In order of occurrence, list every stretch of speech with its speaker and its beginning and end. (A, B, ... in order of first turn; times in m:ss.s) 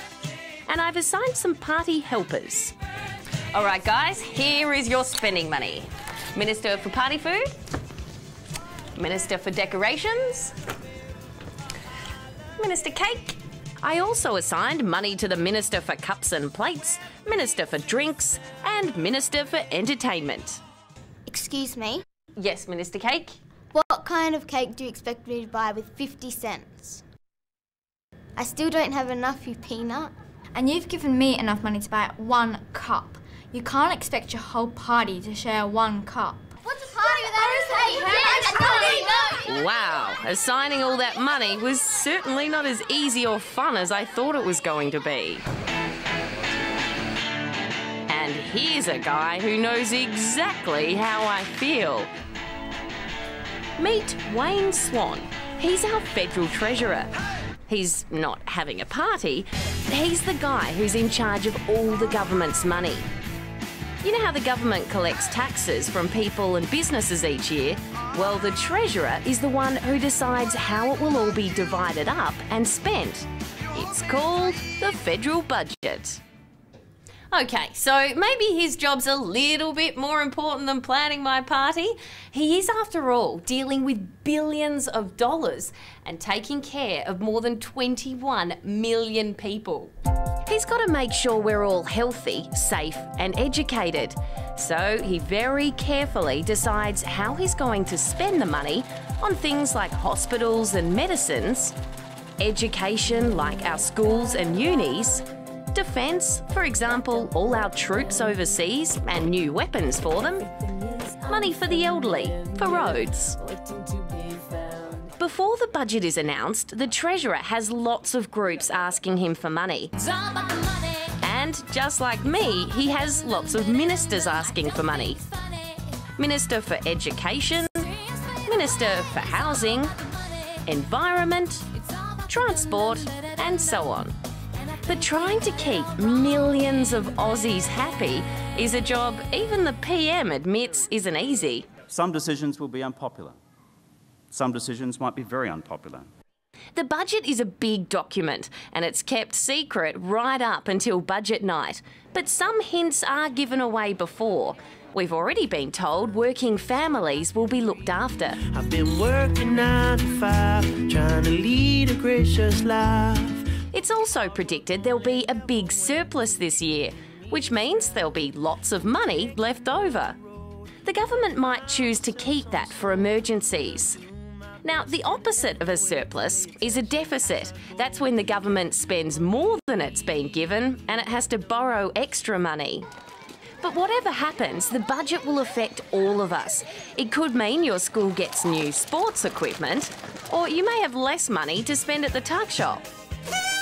0:00.7-0:02.8 A
0:03.5-0:07.5 A
0:09.0-0:10.5 A
0:12.6-0:20.6 A
0:21.3-0:22.0 B
0:22.4-0:23.4 A
0:23.7-0:27.0 B
0:28.4-0:30.1 B
0:30.6-0:36.5 C
0:36.6-0:39.4 B
0:37.3-0:39.2 C
0:39.4-0:45.4 A
0:48.1-0:52.1 A
0:53.8-0:57.1 A
0:57.7-1:03.1 A
1:04.0-1:16.2 A
1:17.3-1:29.9 A
1:30.5-1:41.8 A
1:42.4-1:53.5 A
1:54.8-2:05.2 A
2:06.2-2:10.0 A
2:10.7-2:14.1 A
2:14.8-2:21.7 A
2:21.9-2:23.4 D
2:24.3-2:26.1 D
2:26.8-2:38.4 A
2:38.5-2:43.4 E
2:43.7-2:50.2 A
2:50.8-2:54.0 A
2:54.6-3:02.9 A
3:03.6-3:12.9 A